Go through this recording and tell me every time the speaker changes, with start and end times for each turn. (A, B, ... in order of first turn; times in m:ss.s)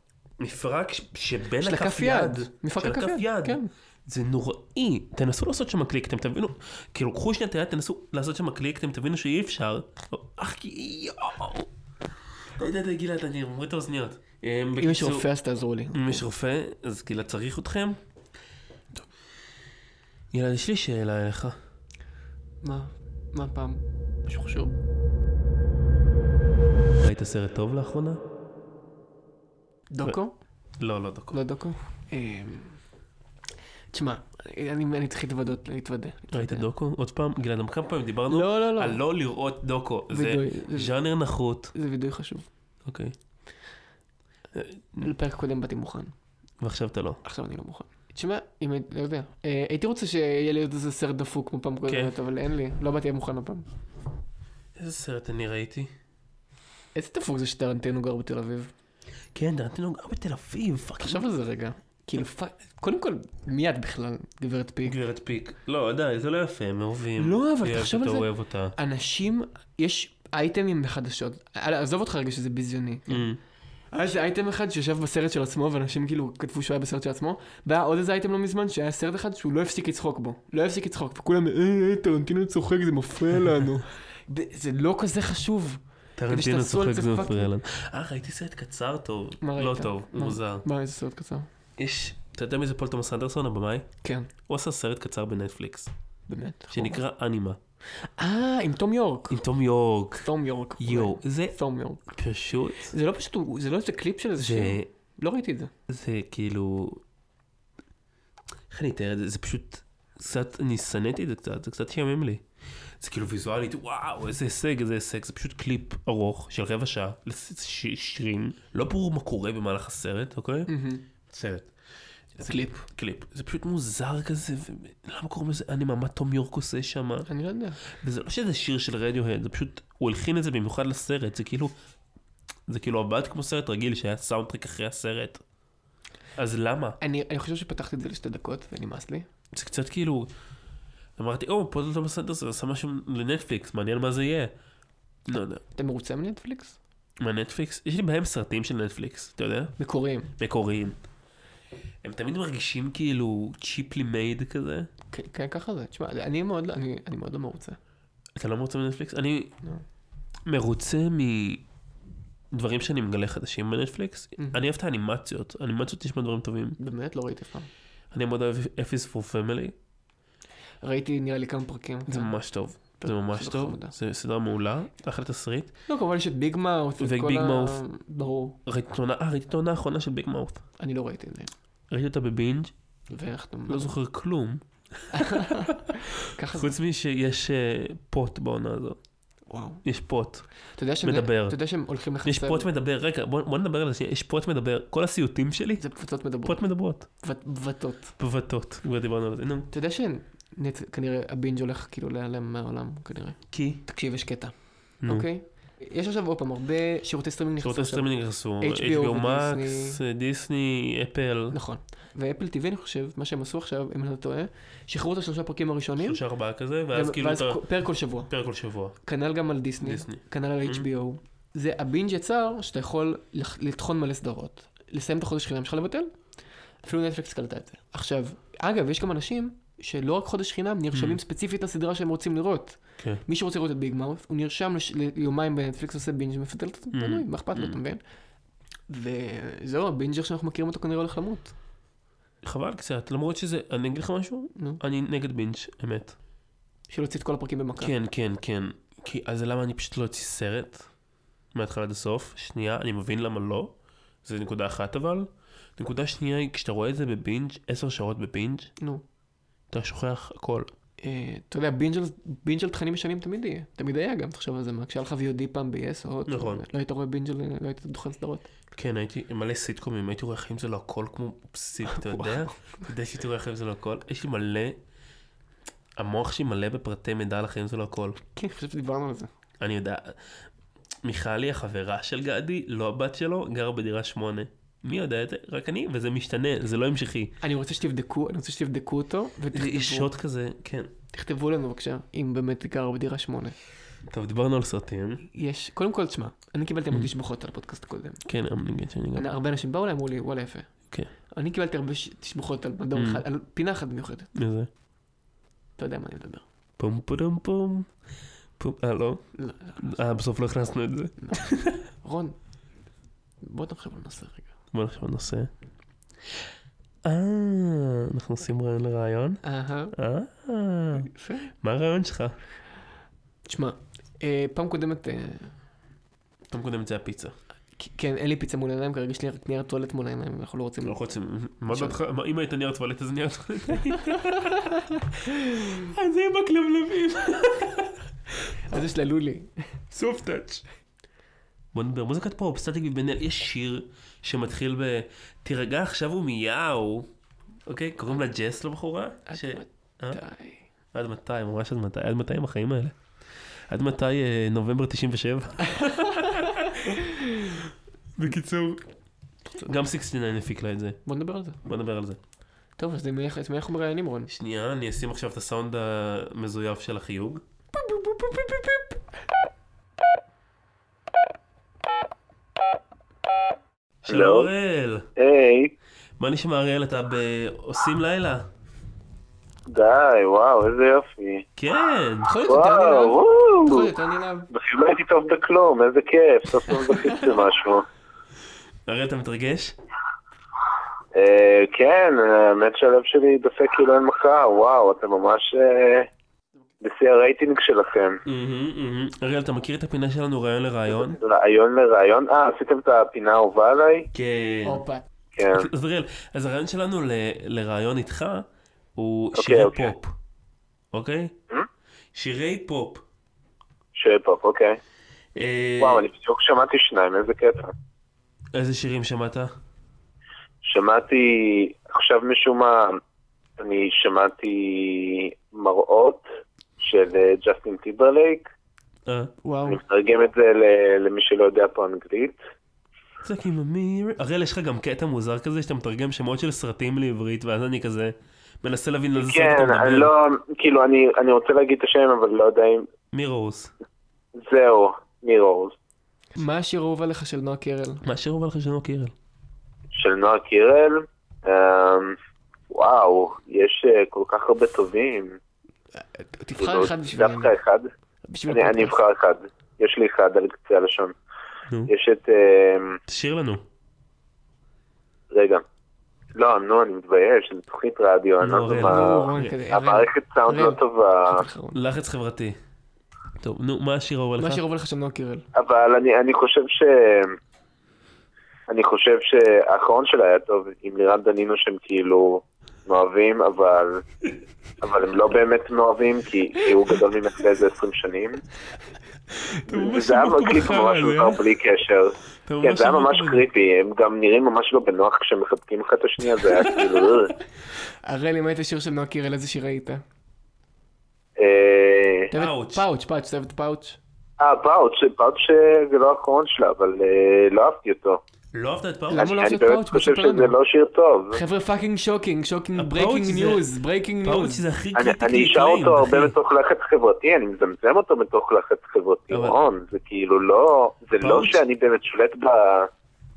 0:00.4-0:11.7 A
0:01.6-0:03.7 B
0:12.6-0:15.3 A
0:14.8-0:16.2 B
0:15.9-0:18.0 A
0:20.3-0:21.6 A
0:22.6-0:24.8 B
0:27.0-0:28.2 A
0:29.9-0:30.4 B
0:30.8-0:31.4 A
0:31.3-0:32.8 B
0:33.9-0:36.7 B
0:36.3-0:41.7 A
0:38.3-0:39.0 B
0:40.1-0:41.0 B
0:41.7-0:42.5 B
0:42.8-0:43.2 A
0:44.5-0:45.1 A
0:45.0-0:46.1 B
0:46.6-0:47.2 A
0:47.2-0:53.7 B
0:51.9-0:52.1 A
0:54.8-0:55.9 A
0:57.0-0:58.7 B
0:59.3-1:01.3 A
1:01.0-1:05.0 B
1:04.8-1:08.8 A
1:07.2-1:13.3 B
1:13.1-1:13.4 A
1:13.9-1:27.5 B
1:26.2-1:30.6 A
1:29.4-1:31.5 B
1:31.8-1:33.9 A
1:34.0-1:34.3 B
1:34.5-1:35.9 A
1:36.3-1:37.0 B
1:36.7-1:37.6 A
1:38.0-1:39.4 B
1:39.3-1:41.6 A
1:40.2-1:42.1 B
1:42.1-1:42.9 A
1:42.9-1:45.7 B
1:44.4-1:44.9 A
1:45.9-1:47.0 A
1:48.7-1:52.4 A
1:53.0-2:00.7 A
2:00.7-2:01.0 B
2:01.3-2:01.7 A
2:02.4-2:07.3 A
2:02.4-2:02.8 B
2:07.3-2:07.8 B
2:07.9-2:11.7 A
2:12.7-2:15.4 A
2:16.4-2:17.0 A
2:17.0-2:19.3 B
2:19.5-2:20.3 A
2:21.2-2:24.5 A
2:25.3-2:25.6 A
2:25.7-2:26.8 B
2:27.2-2:29.8 A
2:29.8-2:30.3 B
2:30.4-2:31.0 A
2:32.0-2:34.9 A
2:35.1-2:37.8 B
2:38.4-2:39.6 A
2:40.5-2:41.6 A
2:42.5-2:46.8 A
2:46.8-2:47.7 B
2:48.1-2:49.8 A
2:50.8-2:54.0 B
2:52.1-2:55.7 A
2:55.9-2:58.6 B
2:57.0-2:57.8 A
2:58.7-3:00.6 A
3:00.8-3:01.5 B
3:01.9-3:02.7 A
3:03.1-3:03.9 B
3:03.7-3:09.0 A
3:05.1-3:06.7 B
3:09.5-3:09.8 B
3:09.8-3:10.5 A
3:10.7-3:12.7 B
3:11.0-3:11.6 A
3:12.2-3:15.8 A
3:15.8-3:18.1 B
3:16.4-3:17.1 A
3:18.2-3:19.7 A
3:19.7-3:30.0 B
3:23.5-3:23.8 A
3:25.0-3:25.3 A
3:27.6-3:31.6 A
3:31.5-3:36.2 B
3:36.0-3:37.7 A
3:36.9-3:38.3 B
3:38.3-3:39.0 A
3:39.0-3:46.2 B
3:39.8-3:40.9 A
3:46.8-3:58.0 B
3:50.9-3:51.2 A
3:56.9-3:57.8 A
3:58.9-4:01.5 B
4:02.4-4:06.2 A
4:04.6-4:04.8 B
4:06.9-4:07.9 B
4:07.8-4:10.9 A
4:11.5-4:18.7 A
4:19.7-4:20.7 A
4:21.0-4:28.5 B
4:26.3-4:26.6 A
4:28.8-4:34.8 A
4:32.0-4:32.5 B
4:36.0-4:38.2 A
4:38.3-4:39.3 B
4:39.6-4:40.2 A
4:41.0-4:47.3 A
4:47.4-4:50.1 B
4:49.5-4:50.9 A
4:51.1-4:53.6 B
4:54.1-4:55.2 A
4:55.3-4:58.2 B
4:58.2-4:59.3 A
4:59.1-5:00.7 B
5:01.3-5:04.3 B
5:02.9-5:03.2 A
5:04.4-5:04.7 A
5:05.8-5:06.4 B
5:06.8-5:07.9 A
5:08.6-5:11.8 A
5:09.4-5:09.9 B
5:12.0-5:12.4 B
5:13.4-5:14.5 B
5:14.7-5:15.5 A
5:17.0-5:19.4 A
5:19.4-5:20.0 B
5:19.9-5:21.1 A
5:21.0-5:21.5 B
5:21.6-5:22.4 A
5:23.5-5:25.6 B
5:26.5-5:27.4 A
5:27.8-5:31.0 B
5:30.8-5:34.7 A
5:31.7-5:32.0 B
5:34.7-5:35.8 B
5:35.6-5:38.0 A
5:38.7-5:39.7 B
5:39.9-5:40.6 A
5:41.7-5:47.1 A
5:47.7-5:50.2 A
5:49.3-5:50.7 B
5:50.9-5:53.0 A
5:53.7-5:57.6 A
5:55.8-5:56.4 B
5:58.2-5:58.8 A
5:59.6-6:01.0 A
6:01.1-6:01.6 B
6:01.6-6:02.2 A
6:02.8-6:04.3 B
6:04.3-6:07.4 A
6:07.8-6:09.0 B
6:14.0-6:15.1 A
6:14.1-6:14.5 C
6:15.2-6:15.7 C
6:16.2-6:18.5 A
6:19.7-6:21.5 C
6:21.6-6:22.3 A
6:22.2-6:24.5 B
6:22.5-6:23.9 C
6:24.5-6:27.8 C
6:28.9-6:29.8 A
6:31.1-6:36.1 C
6:36.8-6:38.2 C
6:38.2-6:41.2 A
6:41.2-6:44.1 C
6:44.1-6:44.8 A
6:44.6-6:45.0 B
6:45.4-6:45.7 C
6:45.5-6:50.1 A
6:49.4-6:49.9 C
6:50.9-6:51.4 A
6:52.1-6:53.0 A
6:54.0-6:54.8 C
6:55.4-6:56.1 A
6:55.8-6:57.7 C
6:58.5-6:59.5 A
7:00.6-7:03.0 C
7:03.6-7:06.2 C
7:06.8-7:08.5 C
7:09.1-7:09.3 A
7:09.4-7:09.8 B
7:09.7-7:12.4 C
7:13.2-7:20.1 A
7:19.2-7:22.9 C
7:23.1-7:23.7 A
7:24.4-7:25.8 C
7:26.4-7:28.0 B
7:28.0-7:29.1 A
7:29.9-7:32.2 C
7:32.7-7:35.4 C
7:36.0-7:37.5 B
7:36.6-7:37.9 C
7:38.3-7:39.0 B
7:38.5-7:41.2 C
7:41.9-7:43.0 C
7:43.1-7:43.6 A
7:45.3-7:45.6 C
7:46.4-7:51.4 C
7:48.4-7:49.5 A
7:48.8-7:51.8 B
7:51.7-7:52.6 A
7:53.4-7:54.6 A
7:54.4-7:55.5 B
7:55.6-7:57.4 C
7:58.7-8:04.0 C
8:04.8-8:08.4 C
8:09.4-8:11.4 A
8:09.7-8:17.4 C
8:12.5-8:13.5 A
8:18.0-8:20.0 B
8:21.4-8:22.3 C
8:22.3-8:24.0 B
8:22.3-8:22.8 A
8:24.4-8:28.2 C
8:28.5-8:29.4 A
8:29.1-8:30.6 B
8:29.1-8:31.4 C
8:31.3-8:34.6 B
8:32.8-8:33.7 A
8:34.2-8:36.4 A
8:35.0-8:42.9 C
8:39.3-8:39.6 A
8:41.2-8:41.6 A